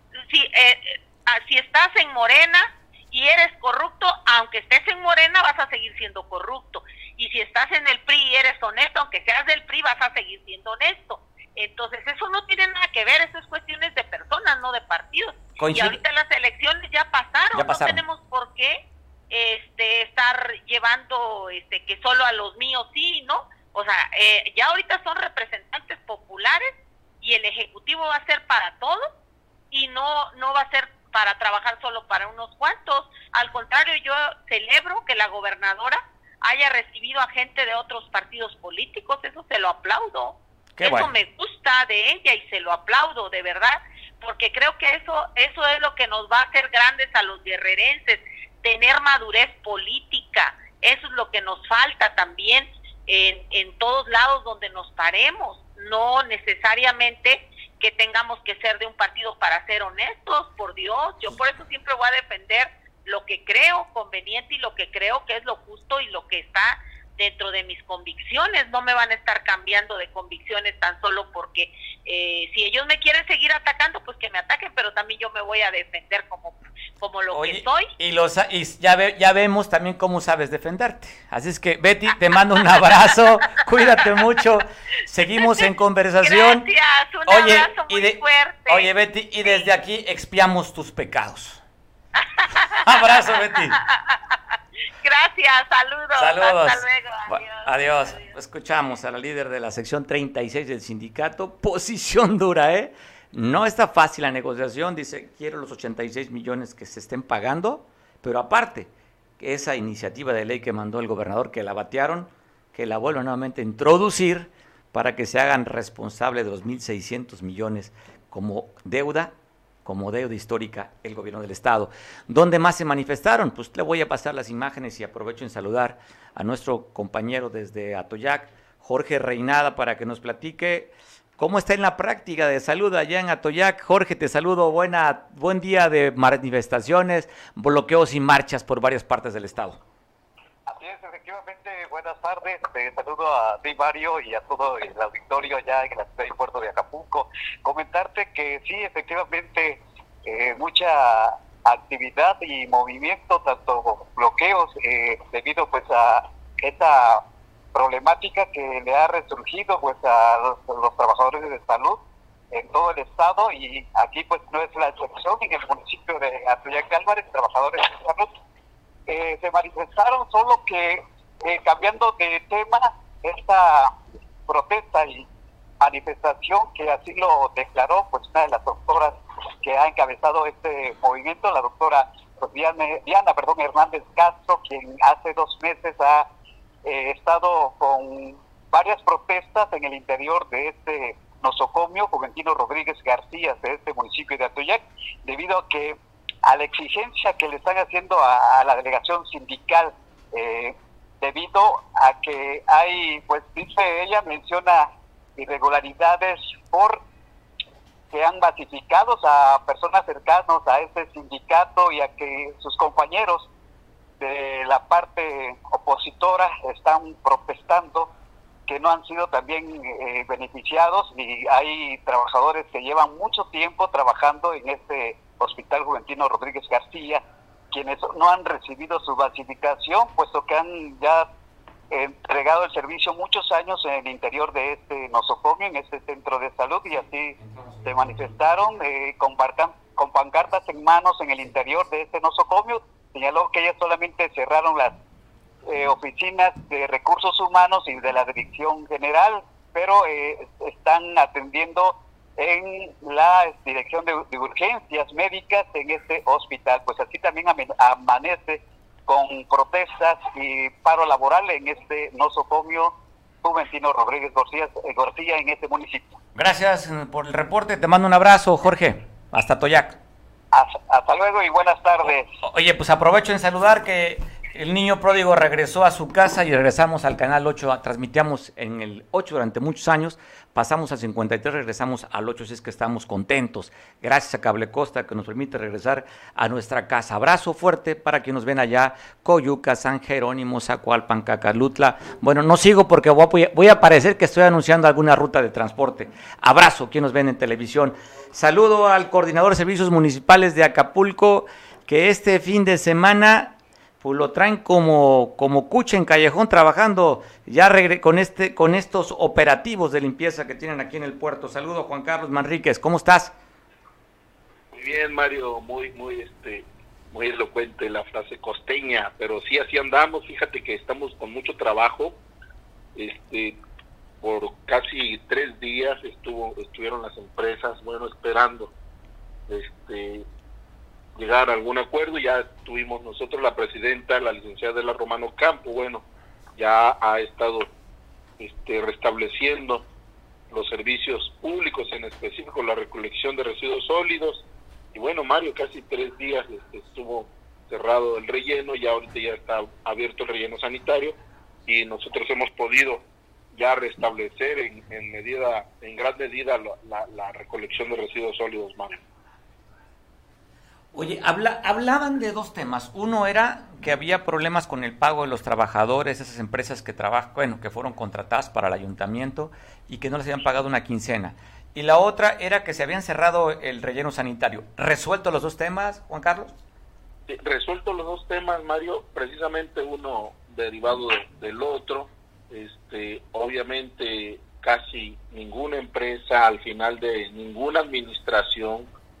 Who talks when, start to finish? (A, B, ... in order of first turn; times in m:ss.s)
0:00.2-0:29.1 A
0:15.6-0:16.0 B
0:17.5-0:18.0 B
0:29.7-1:17.9 A
0:40.7-0:41.1 B
1:17.3-1:26.7 B
1:25.4-1:25.6 A
1:26.2-1:28.9 A
1:27.3-1:31.6 B
1:32.2-1:34.3 A
1:32.8-1:33.8 B
1:35.0-1:38.2 A
1:36.2-1:59.3 B
1:59.8-2:19.8 B
2:20.7-2:37.2 C
2:37.7-2:42.0 C
2:42.5-2:48.3 C
2:49.1-2:53.9 C
2:54.5-2:55.2 C
2:55.8-3:06.3 C
3:06.8-3:27.0 C
3:28.1-3:33.5 C
3:34.2-3:38.1 C
3:38.7-3:51.3 C
3:51.9-4:05.0 C
3:57.5-3:58.2 B
4:05.6-4:26.2 C
4:26.4-4:30.0 B
4:30.5-4:32.3 C
4:32.4-5:13.3 B
5:14.7-5:22.2 D
5:22.9-5:23.6 D
5:24.2-5:28.7 D
5:29.5-5:30.2 D
5:31.2-5:37.7 D
5:38.4-5:39.8 D
5:40.5-5:59.0 D
6:00.9-6:16.5 B
6:17.3-6:28.9 D